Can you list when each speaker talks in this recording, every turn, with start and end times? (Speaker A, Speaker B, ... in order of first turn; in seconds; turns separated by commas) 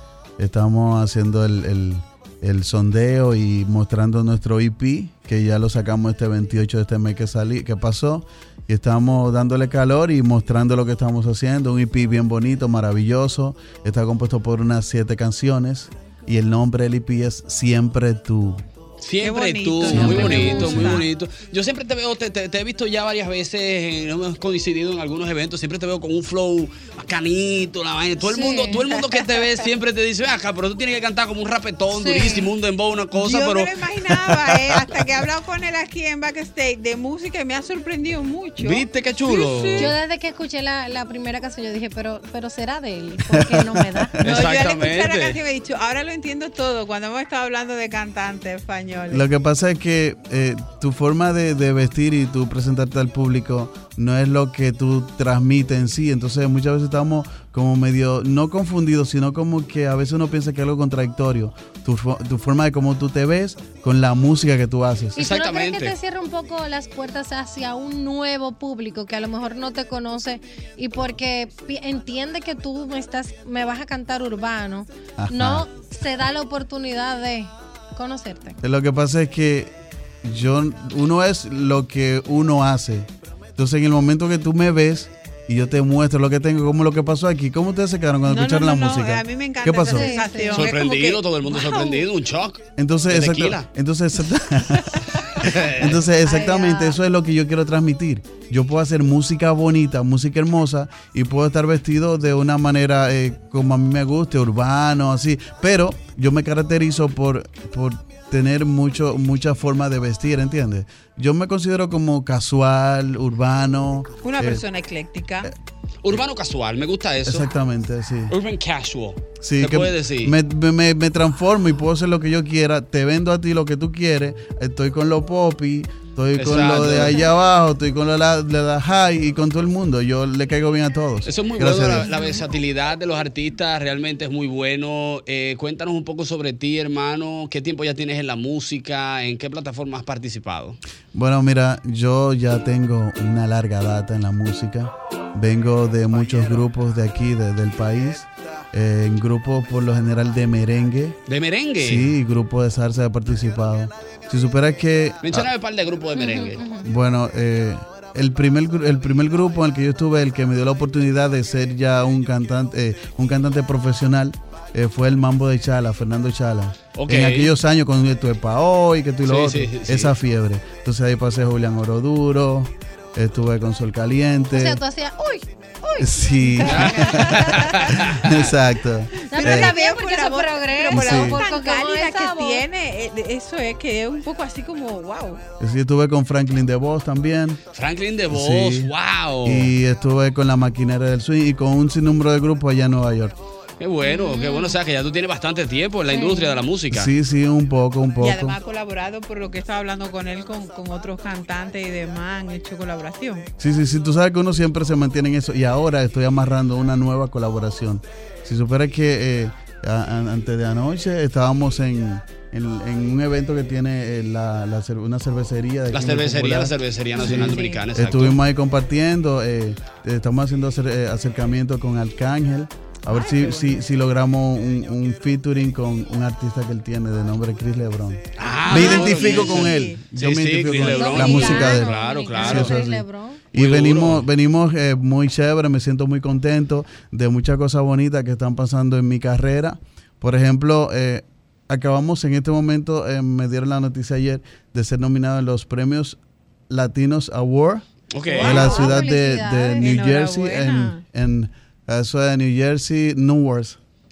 Speaker A: 0.4-18.6, Speaker B: 19.0-33.7, Speaker C: 19.2-21.0, Speaker A: 19.9-20.9, Speaker D: 20.2-20.7, Speaker D: 28.2-29.4, Speaker D: 31.9-32.5, Speaker C: 33.1-39.9, Speaker B: 38.6-40.0, Speaker D: 39.8-44.2, Speaker A: 43.3-44.1, Speaker B: 44.2-45.4, Speaker C: 44.2-49.3, Speaker A: 49.1-65.2, Speaker D: 65.1-78.6, Speaker B: 65.2-66.0, Speaker A: 75.2-75.6, Speaker A: 78.6-79.7, Speaker A: 80.2-90.1, Speaker C: 88.2-91.2, Speaker D: 89.8-90.8, Speaker B: 90.5-93.7, Speaker D: 91.4-92.0, Speaker A: 92.8-94.9, Speaker B: 95.4-96.0, Speaker A: 95.7-114.6, Speaker C: 96.2-96.9, Speaker C: 114.2-115.5, Speaker B: 116.0-117.5, Speaker A: 117.2-118.3, Speaker B: 118.3-120.3, Speaker A: 119.4-132.1, Speaker B: 126.4-127.2, Speaker B: 131.2-140.8, Speaker D: 132.0-132.4, Speaker A: 141.1-151.2, Speaker B: 151.3-152.1, Speaker A: 151.8-155.5, Speaker B: 155.2-156.6, Speaker D: 156.1-156.8, Speaker A: 156.8-174.8, Speaker B: 166.9-167.5, Speaker B: 169.2-170.1, Speaker D: 174.5-177.5, Speaker A: 176.0-179.7, Speaker B: 176.6-178.4, Speaker D: 179.2-182.6, Speaker C: 179.3-185.4, Speaker A: 180.9-181.4, Speaker A: 185.6-187.6, Speaker B: 187.7-189.7, Speaker A: 188.3-188.9, Speaker A: 189.4-193.3, Speaker B: 193.8-197.1, Speaker D: 194.0-194.8, Speaker D: 196.1-196.6, Speaker A: 196.9-198.6, Speaker C: 198.2-203.5, Speaker A: 203.6-216.7, Speaker B: 215.9-218.4, Speaker D: 217.2-217.8, Speaker A: 217.2-246.2, Speaker C: 217.3-217.8, Speaker C: 223.1-223.6, Speaker B: 228.3-232.8, Speaker C: 228.7-230.0, Speaker D: 228.8-229.0, Speaker D: 230.8-233.4, Speaker B: 233.5-234.2, Speaker A: 246.7-247.8, Speaker B: 248.1-248.7, Speaker D: 248.3-250.0, Speaker C: 248.3-248.9, Speaker A: 248.4-253.8, Speaker C: 249.8-251.0